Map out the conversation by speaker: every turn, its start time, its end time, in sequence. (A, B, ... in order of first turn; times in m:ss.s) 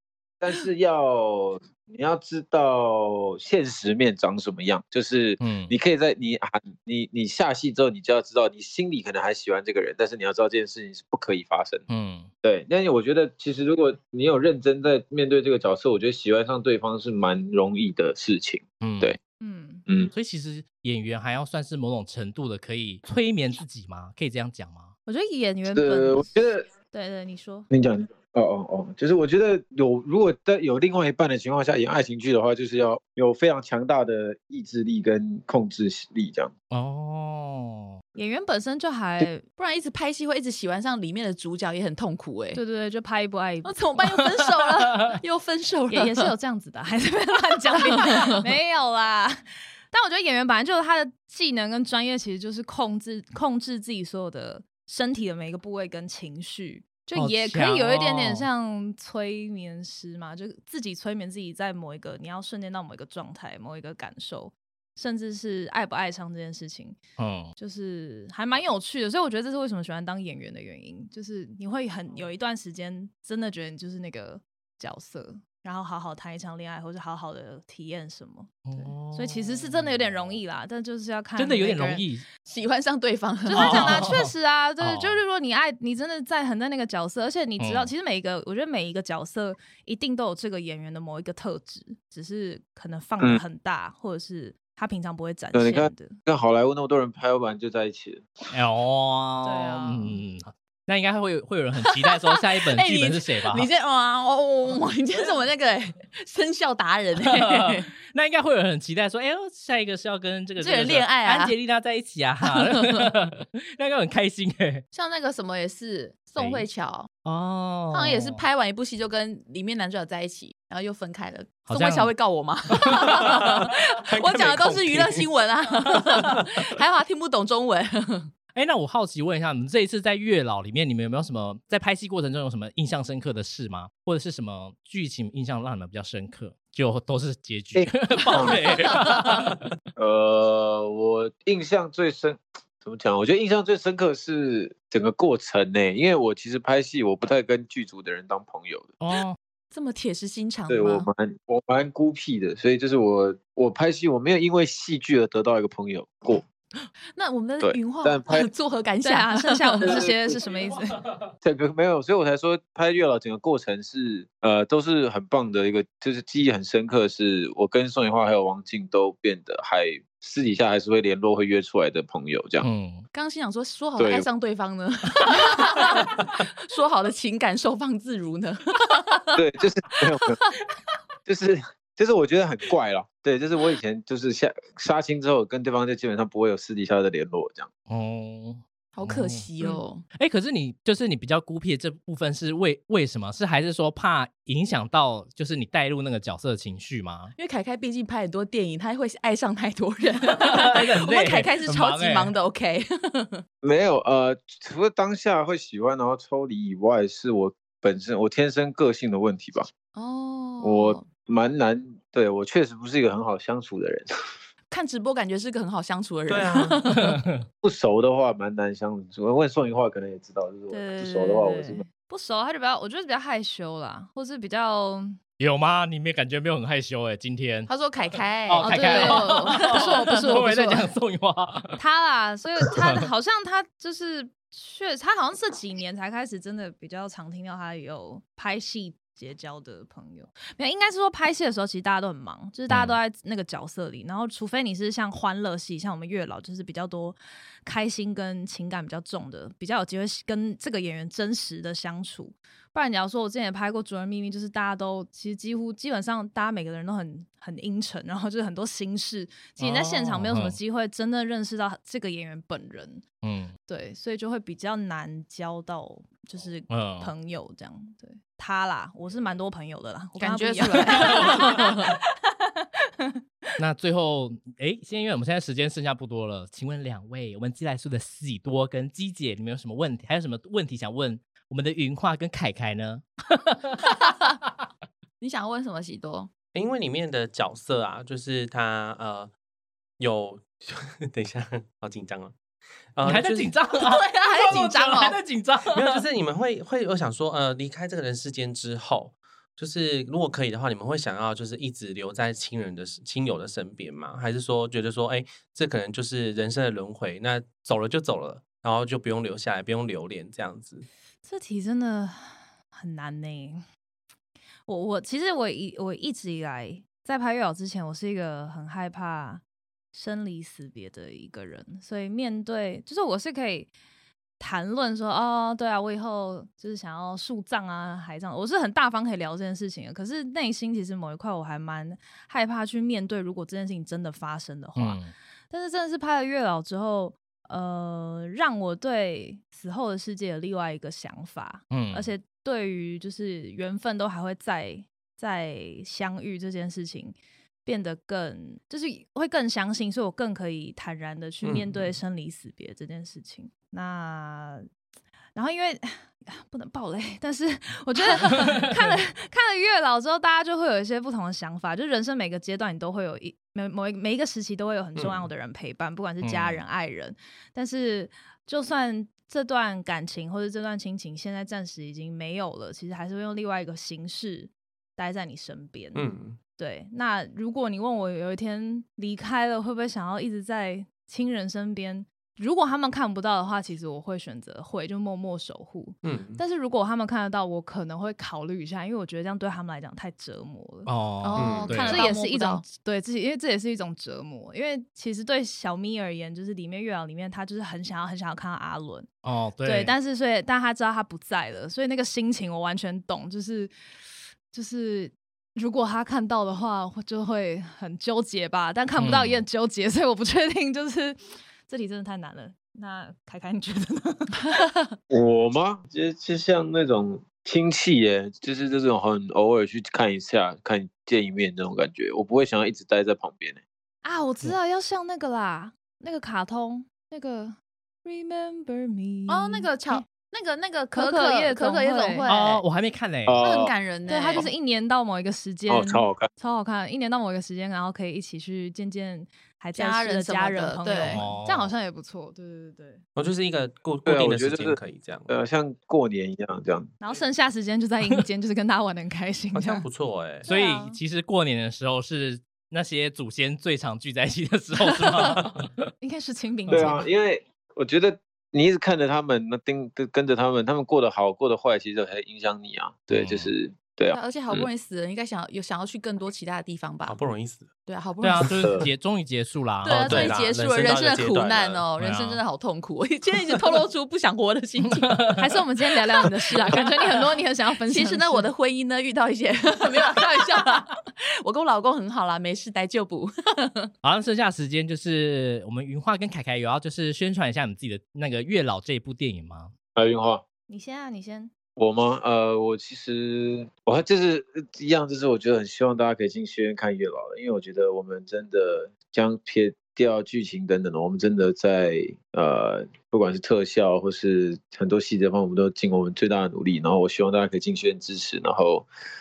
0:00.4-0:11.8 A
0:05.4-0:05.7 B
0:11.9-0:12.3 B
0:12.4-0:19.2 A
0:18.8-0:19.1 B
0:19.4-0:19.8 C
0:20.1-0:24.9 B
0:25.0-0:27.7 C
0:25.7-0:26.6 A
0:27.7-0:36.5 A
0:36.7-0:38.0 B
0:38.2-0:39.4 C
0:39.6-0:42.6 D
0:42.5-0:43.8 C
0:43.6-0:46.3 D
0:45.9-1:07.0 C
0:47.8-0:48.4 D
0:57.1-0:58.5 B
1:07.2-1:07.5 B
1:07.6-1:22.0 C
1:18.6-1:20.1 B
1:21.4-1:22.2 B
1:22.4-1:24.1 D
1:23.4-1:36.2 C
1:23.5-1:25.2 B
1:27.6-1:27.9 B
1:35.5-1:38.3 A
1:38.5-1:43.7 B
1:39.4-1:40.2 C
1:41.9-1:47.9 D
1:47.2-1:54.8 B
1:50.6-1:51.5 D
1:52.4-1:53.1 D
1:54.9-1:57.1 D
1:56.4-1:56.6 B
1:57.2-1:58.4 B
1:57.9-2:08.3 D
2:01.7-2:02.1 B
2:02.7-2:03.4 B
2:03.0-2:03.4 E
2:04.0-2:05.3 E
2:08.5-2:19.7 B
2:17.7-2:18.6 A
2:20.0-2:29.0 A
2:29.0-2:29.4 B
2:29.7-2:31.1 D
2:30.7-2:36.4 A
2:37.2-2:40.0 D
2:37.6-2:38.4 A
2:39.0-2:40.9 C
2:39.8-2:40.3 A
2:41.4-2:52.6 A
2:52.6-2:53.0 B
2:53.1-2:59.4 D
2:54.0-2:54.2 A
2:59.4-3:00.4 A
3:00.0-3:00.5 D
3:01.2-3:07.7 A
3:07.9-3:09.5 B
3:08.9-3:10.0 D
3:10.1-3:17.3 B
3:17.4-3:23.4 D
3:20.2-3:22.3 B
3:23.6-3:29.7 A
3:29.9-3:31.1 D
3:30.6-3:34.1 A
3:34.7-3:37.2 D
3:36.3-3:36.8 E
3:36.9-3:37.4 B
3:37.6-3:41.8 A
3:40.7-3:45.2 C
3:45.4-3:47.7 B
3:47.7-3:50.8 D
3:48.5-3:51.8 B
3:48.6-3:50.1 C
3:51.8-4:23.0 C
4:02.7-4:03.0 B
4:19.6-4:20.6 B
4:23.2-4:23.5 B
4:23.7-4:32.0 C
4:26.7-4:27.1 B
4:30.2-4:31.9 D
4:31.0-4:31.5 B
4:33.6-4:43.8 B
4:45.2-4:46.3 D
4:46.5-4:49.3 E
4:50.0-4:52.3 E
4:52.9-4:53.6 E
4:53.0-4:56.0 B
4:53.7-4:55.2 D
4:55.7-5:10.9 E
5:11.2-5:13.6 C
5:14.7-5:19.4 C
5:19.9-5:23.7 C
5:24.4-5:54.6 C
5:34.8-5:35.1 B
5:41.7-5:42.1 B
5:51.4-5:51.9 E
5:55.3-6:30.9 C
6:05.0-6:05.3 E
6:06.2-6:06.6 B
6:15.9-6:16.4 E
6:26.0-6:26.4 E
6:30.8-6:32.0 B
6:31.2-6:32.6 D
6:31.4-6:32.0 E
6:31.9-6:39.1 C
6:39.2-6:39.9 B
6:39.6-6:43.7 C
6:44.5-6:54.4 C
6:49.0-6:49.4 B
6:55.1-7:03.6 A
7:04.0-7:10.0 C
7:09.3-7:12.6 D
7:10.9-7:12.2 C
7:12.2-7:13.4 B
7:13.3-7:13.7 A
7:13.4-7:14.5 D
7:14.0-7:23.0 C
7:15.7-7:16.3 A
7:19.8-7:21.2 D
7:21.1-7:21.7 B
7:23.2-7:25.3 E
7:24.0-7:26.9 A
7:27.0-7:29.8 C
7:29.5-7:30.5 E
7:30.4-7:31.0 C
7:30.4-7:35.7 B
7:36.0-7:37.0 C
7:36.7-7:44.7 A
7:43.1-7:43.5 B
7:44.1-7:47.2 D
7:47.1-7:47.7 E
7:47.8-7:48.7 D
7:48.2-7:50.4 B
7:48.5-7:48.9 A
7:49.8-7:55.4 D
7:50.0-7:51.8 E
7:52.0-7:52.4 B
7:55.0-7:55.4 B
7:55.4-7:58.5 C
7:56.2-8:03.9 D
8:04.0-8:09.7 B
8:09.9-8:10.4 A
8:10.7-8:11.5 C
8:11.8-8:28.9 A